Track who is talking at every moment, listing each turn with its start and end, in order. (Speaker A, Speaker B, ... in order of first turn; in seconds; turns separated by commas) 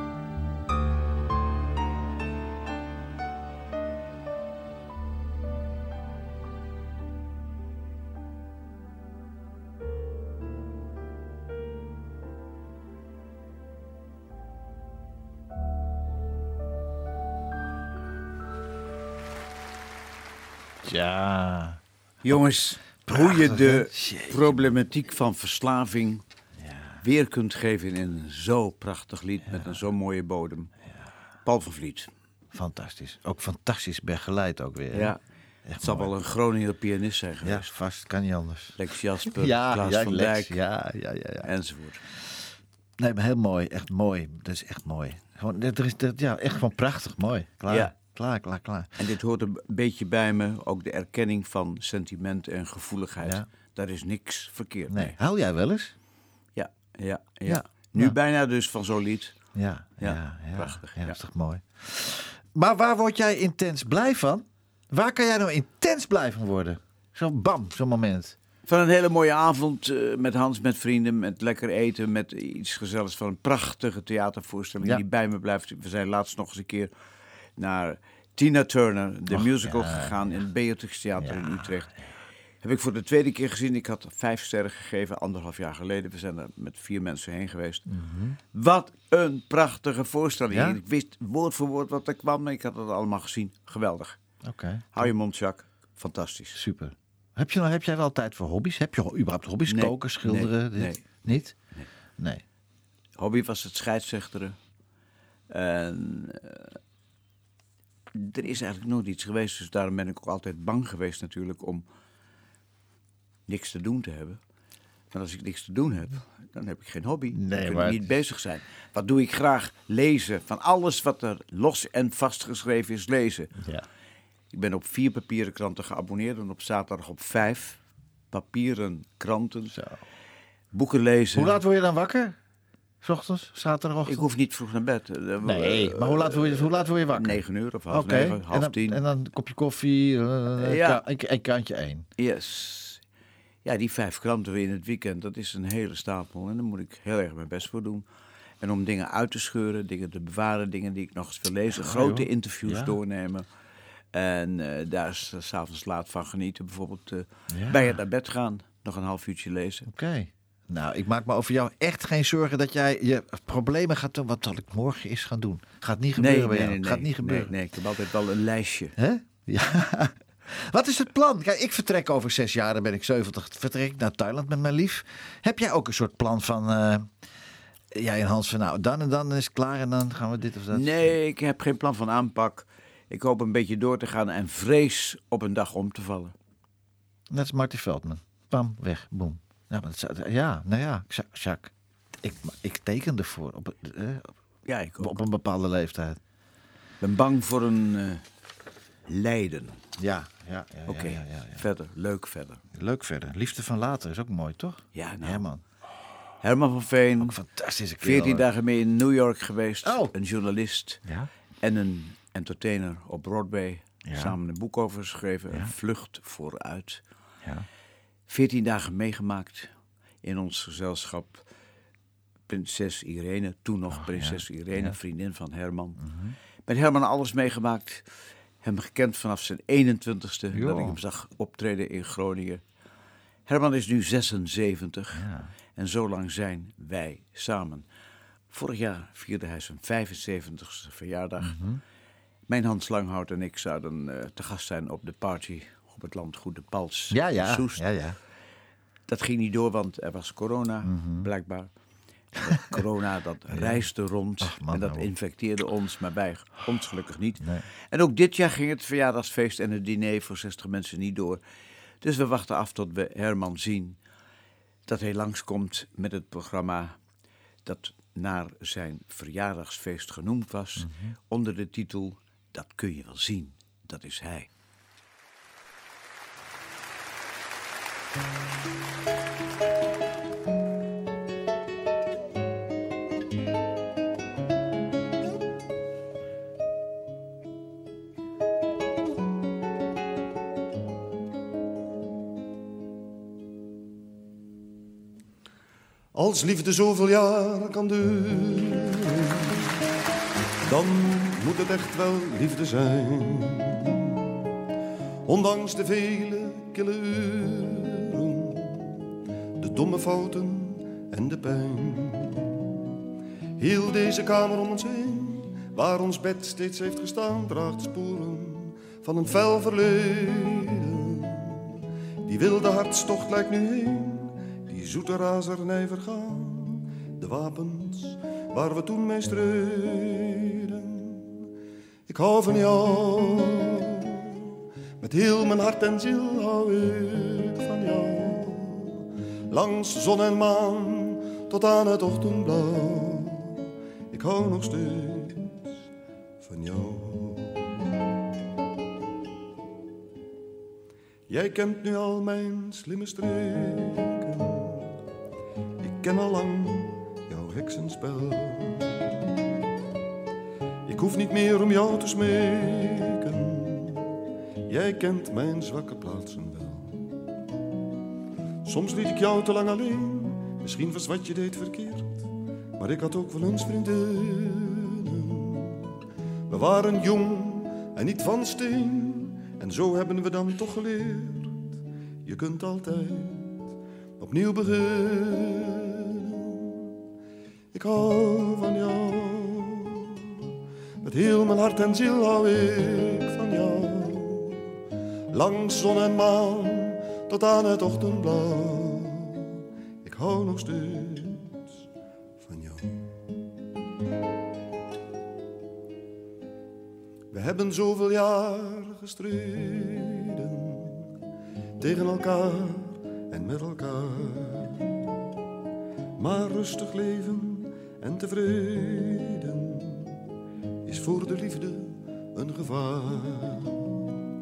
Speaker A: 20.8-21.8, Speaker B: 22.2-26.2, Speaker A: 23.0-24.7, Speaker A: 26.6-27.0, Speaker B: 27.0-30.7, Speaker A: 29.5-29.8, Speaker B: 31.4-32.1, Speaker A: 32.5-35.1, Speaker B: 34.9-35.2, Speaker A: 35.7-36.1, Speaker B: 35.8-37.7, Speaker A: 37.4-41.5, Speaker B: 38.8-40.6, Speaker B: 41.4-42.0, Speaker A: 43.0-48.9, Speaker B: 49.0-55.1, Speaker A: 54.9-55.9, Speaker B: 56.6-59.4, Speaker A: 57.5-58.1, Speaker A: 59.5-68.3, Speaker B: 60.0-61.2, Speaker B: 68.7-76.9, Speaker B: 77.6-81.9, Speaker A: 79.3-80.4, Speaker A: 81.2-82.1, Speaker B: 82.6-87.8, Speaker A: 87.9-88.4, Speaker B: 88.5-94.2, Speaker A: 90.5-90.8, Speaker A: 94.4-95.1, Speaker B: 95.0-96.6, Speaker A: 96.5-101.5, Speaker B: 99.7-101.9, Speaker A: 102.2-102.4, Speaker B: 103.2-104.6, Speaker B: 105.5-106.8, Speaker B: 108.1-111.8, Speaker B: 113.5-114.4, Speaker B: 115.1-123.5, Speaker A: 117.3-118.1, Speaker A: 123.6-123.8, Speaker B: 124.5-127.8, Speaker B: 128.3-129.8, Speaker A: 129.7-130.0, Speaker B: 130.7-131.6, Speaker A: 131.3-132.4, Speaker A: 133.0-134.3, Speaker B: 134.1-139.0, Speaker A: 135.4-142.1, Speaker B: 140.6-141.0, Speaker B: 142.2-143.0, Speaker B: 143.7-148.1, Speaker B: 148.6-153.5, Speaker A: 151.7-153.0, Speaker B: 154.1-159.9, Speaker A: 157.5-158.0, Speaker A: 159.9-167.5, Speaker B: 166.2-168.9, Speaker A: 169.0-177.1, Speaker A: 177.9-181.1, Speaker B: 180.7-186.3, Speaker A: 187.3-194.3, Speaker B: 194.7-195.2, Speaker A: 195.0-196.2, Speaker B: 197.0-198.2, Speaker B: 199.1-199.8, Speaker A: 200.0-201.6, Speaker B: 200.9-202.6, Speaker A: 202.7-205.6, Speaker B: 204.9-205.5, Speaker B: 206.4-207.4, Speaker A: 207.2-208.5, Speaker B: 208.0-211.0, Speaker A: 209.8-210.1, Speaker B: 211.6-217.0, Speaker A: 214.1-214.4, Speaker B: 218.3-219.7, Speaker B: 220.2-221.4, Speaker B: 222.5-226.0, Speaker A: 223.9-224.9, Speaker A: 226.0-226.4, Speaker B: 226.7-228.0, Speaker B: 228.6-232.6, Speaker A: 230.5-231.0, Speaker B: 233.5-237.9, Speaker A: 235.1-235.5, Speaker B: 238.5-241.6, Speaker A: 241.4-241.8, Speaker B: 242.5-247.8, Speaker A: 247.1-248.2, Speaker B: 249.1-251.7, Speaker A: 250.8-251.3, Speaker B: 252.4-261.4, Speaker A: 252.6-252.8, Speaker A: 253.5-253.9, Speaker A: 254.4-255.1, Speaker B: 262.0-264.0, Speaker B: 264.9-267.0, Speaker B: 267.6-274.5, Speaker A: 270.8-271.1, Speaker C: 296.1-299.4, Speaker C: 300.6-304.1, Speaker C: 305.2-309.0, Speaker C: 309.6-312.7, Speaker C: 313.6-321.7, Speaker C: 322.2-331.4, Speaker C: 332.1-334.3, Speaker C: 335.0-343.6, Speaker C: 344.1-345.6, Speaker C: 346.4-347.7, Speaker C: 351.3-355.0, Speaker C: 355.8-358.9, Speaker C: 360.9-364.1, Speaker C: 364.7-367.0, Speaker C: 368.6-375.8, Speaker C: 376.5-381.7, Speaker C: 382.2-386.7, Speaker C: 387.7-390.2, Speaker C: 391.0-394.7, Speaker C: 395.3-399.5, Speaker C: 400.0-401.7, Speaker C: 402.4-403.1, Speaker C: 407.3-411.1, Speaker C: 411.8-414.9, Speaker C: 416.2-420.2, Speaker C: 420.9-423.9